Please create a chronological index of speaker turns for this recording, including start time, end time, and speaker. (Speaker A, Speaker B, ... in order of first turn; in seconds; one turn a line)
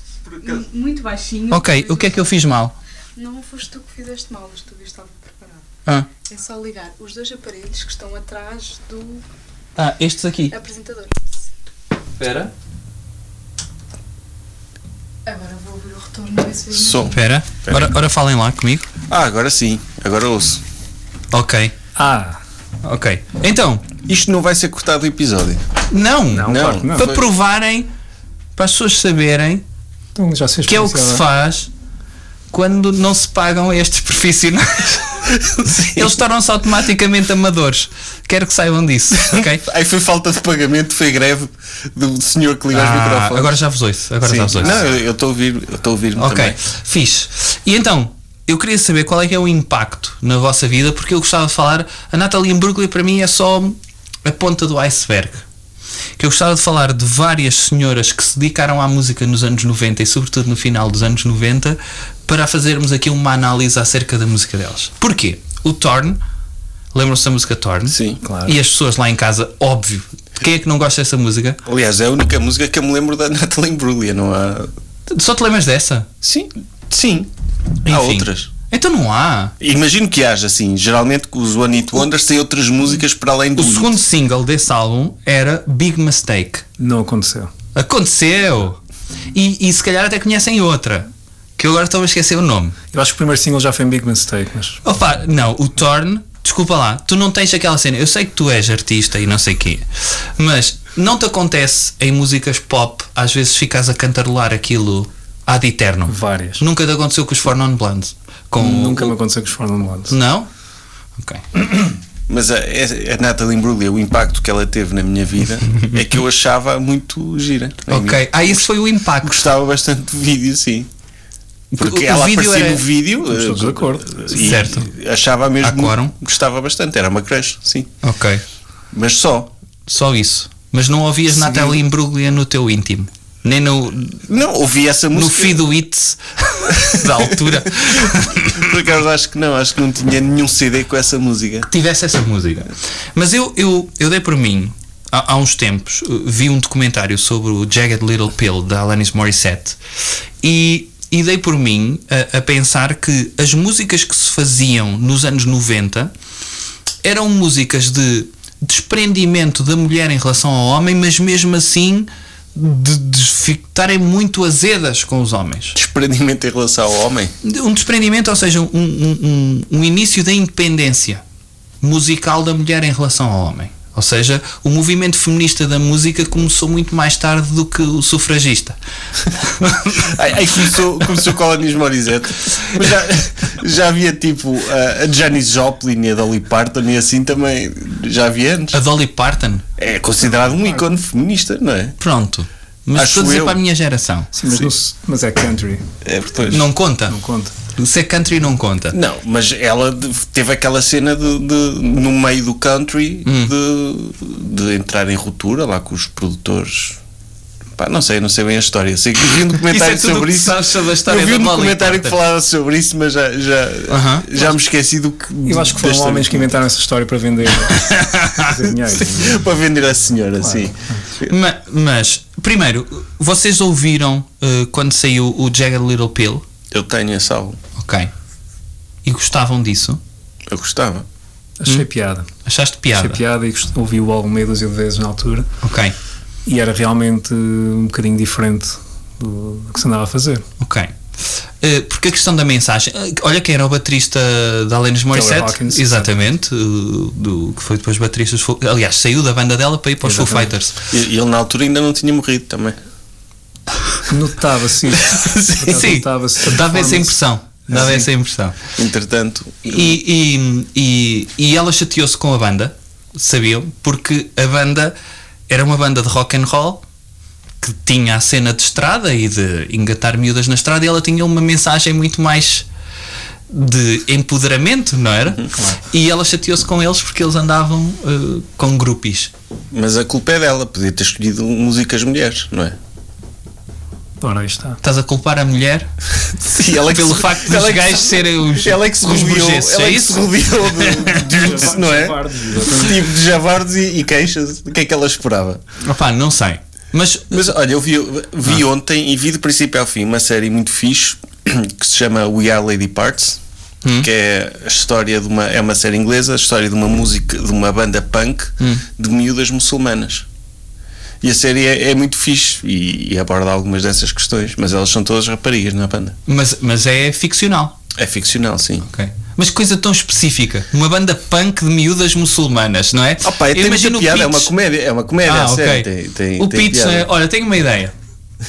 Speaker A: 0.2-0.6
Speaker B: 0.4-2.3
Speaker C: 1.5-2.8
Speaker B: 3.1-5.6
Speaker B: 6.2-9.2
Speaker C: 9.8-10.5
Speaker B: 10.5-11.3
Speaker C: 12.2-12.5
Speaker B: 15.2-17.1
Speaker A: 16.7-18.0
Speaker C: 17.1-18.9
Speaker A: 19.1-20.6
Speaker C: 21.3-21.7
Speaker D: 21.9-22.4
Speaker C: 22.8-23.9
Speaker A: 24.0-25.6
Speaker C: 25.9-27.9
Speaker D: 26.3-27.1
Speaker A: 26.4-27.2
Speaker C: 28.5-29.6
Speaker D: 30.1-31.2
Speaker C: 30.7-31.7
Speaker C: 32.5-39.6
Speaker A: 35.5-36.2
Speaker A: 39.2-43.6
Speaker C: 42.7-44.9
Speaker A: 44.2-46.6
Speaker C: 46.2-55.4
Speaker C: 56.2-66.2
Speaker C: 66.9-71.6
Speaker A: 67.9-68.2
Speaker D: 68.2-68.5
Speaker A: 71.6-74.7
Speaker C: 75.1-76.1
Speaker A: 76.2-77.3
Speaker A: 77.8-78.5
Speaker C: 77.8-79.5
Speaker A: 79.6-84.0
Speaker C: 83.5-86.6
Speaker D: 86.8-87.5
Speaker C: 87.7-88.8
Speaker C: 89.3-92.8
Speaker D: 92.9-94.8
Speaker C: 94.8-109.1
Speaker D: 106.1-106.6
Speaker D: 108.6-110.2
Speaker C: 110.1-110.5
Speaker C: 111.2-111.4
Speaker A: 112.3-118.6
Speaker C: 117.9-119.4
Speaker A: 119.2-120.9
Speaker C: 121.7-122.8
Speaker A: 121.8-127.9
Speaker D: 123.3-124.3
Speaker C: 124.3-124.9
Speaker C: 125.6-126.1
Speaker C: 128.0-128.4
Speaker A: 128.9-129.5
Speaker C: 129.9-134.2
Speaker D: 131.3-131.8
Speaker A: 134.3-135.6
Speaker C: 135.1-138.8
Speaker A: 136.7-141.7
Speaker C: 141.7-149.8
Speaker C: 150.4-156.1
Speaker C: 157.0-165.7
Speaker A: 165.7-167.3
Speaker C: 167.4-171.2
Speaker C: 171.8-178.8
Speaker C: 179.3-180.2
Speaker A: 180.0-188.8
Speaker C: 188.7-189.6
Speaker A: 189.8-191.9
Speaker C: 192.0-194.3
Speaker A: 192.9-193.6
Speaker D: 194.3-195.8
Speaker A: 196.0-196.7
Speaker C: 196.5-197.2
Speaker D: 197.1-197.5
Speaker C: 197.8-198.9
Speaker A: 198.9-207.0
Speaker C: 203.2-203.5
Speaker A: 207.8-216.5
Speaker C: 209.6-212.2
Speaker C: 213.9-214.4
Speaker D: 215.4-219.4
Speaker C: 217.7-218.5
Speaker A: 219.0-221.3
Speaker D: 220.4-221.0
Speaker C: 221.2-226.4
Speaker A: 226.7-227.6
Speaker C: 227.8-228.1
Speaker C: 229.0-230.0
Speaker A: 230.5-231.1
Speaker D: 231.6-232.3
Speaker C: 232.4-233.2
Speaker D: 232.9-235.5
Speaker C: 235.6-235.9
Speaker D: 236.4-240.4
Speaker C: 240.6-240.9
Speaker C: 241.6-250.8
Speaker D: 245.1-246.1
Speaker D: 250.0-250.5
Speaker A: 250.9-252.8
Speaker D: 254.1-257.1
Speaker C: 255.0-258.7
Speaker A: 257.7-258.1
Speaker A: 258.8-260.0
Speaker C: 259.7-264.9
Speaker C: 265.5-266.8
Speaker C: 267.6-272.6
Speaker C: 273.5-279.3
Speaker D: 275.5-275.8
Speaker A: 279.7-282.8
Speaker D: 284.2-284.8
Speaker C: 284.8-285.9
Speaker A: 286.5-295.6
Speaker C: 286.8-291.1
Speaker D: 291.1-293.1
Speaker C: 295.8-297.4
Speaker A: 297.3-303.4
Speaker C: 303.8-304.1
Speaker A: 304.0-310.2
Speaker A: 311.2-316.2
Speaker C: 316.3-317.7
Speaker A: 317.9-318.9
Speaker C: 318.8-324.5
Speaker A: 323.2-327.1
Speaker C: 325.2-327.9